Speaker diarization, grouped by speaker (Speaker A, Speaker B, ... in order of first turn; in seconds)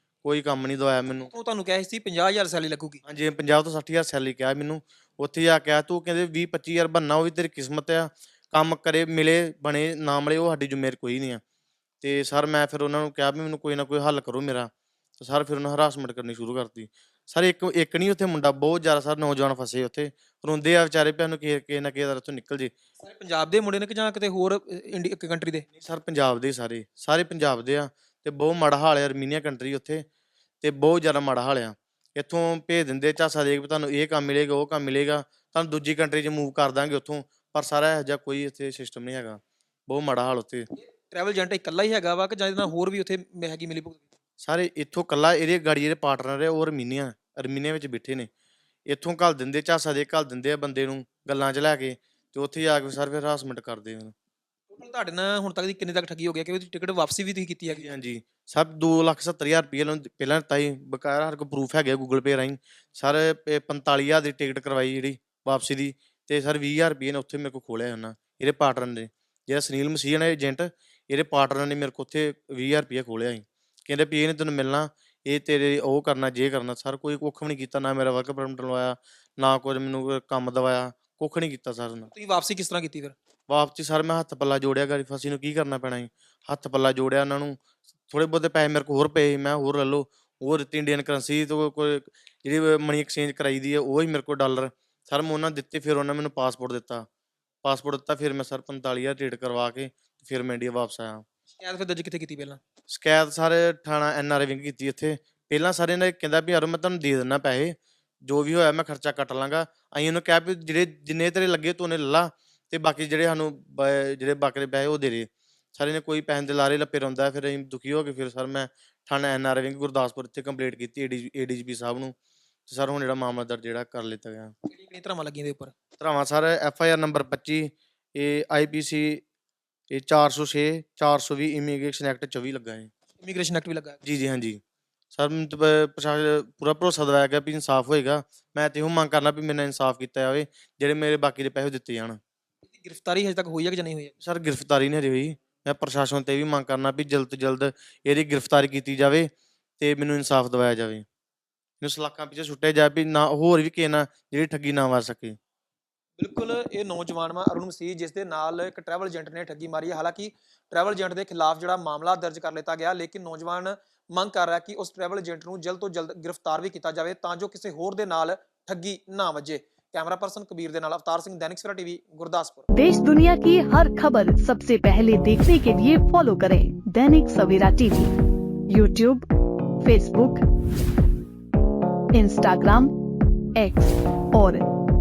Speaker A: 0.2-1.3, 3.0-11.4, 12.0-22.7, 25.7-30.0, 30.6-40.7, 44.4-48.3, 48.9-54.1, 57.7-82.1, 83.5-97.0, 97.6-101.2, 102.9-122.2, 122.7-124.5, 126.0-129.2, 129.9-132.9, 134.0-134.6, 135.1-142.2, 144.2-149.3, 149.8-151.0, 151.8-155.4
Speaker B: 1.3-3.0, 23.0-25.7, 40.8-44.0, 54.7-57.9, 82.1-83.2, 101.6-102.6, 124.7-125.7, 133.2-134.0, 142.7-144.1, 156.2-172.7
Speaker C: 172.7-178.1, 178.7-179.3, 179.8-180.4, 182.1-182.9, 183.6-184.6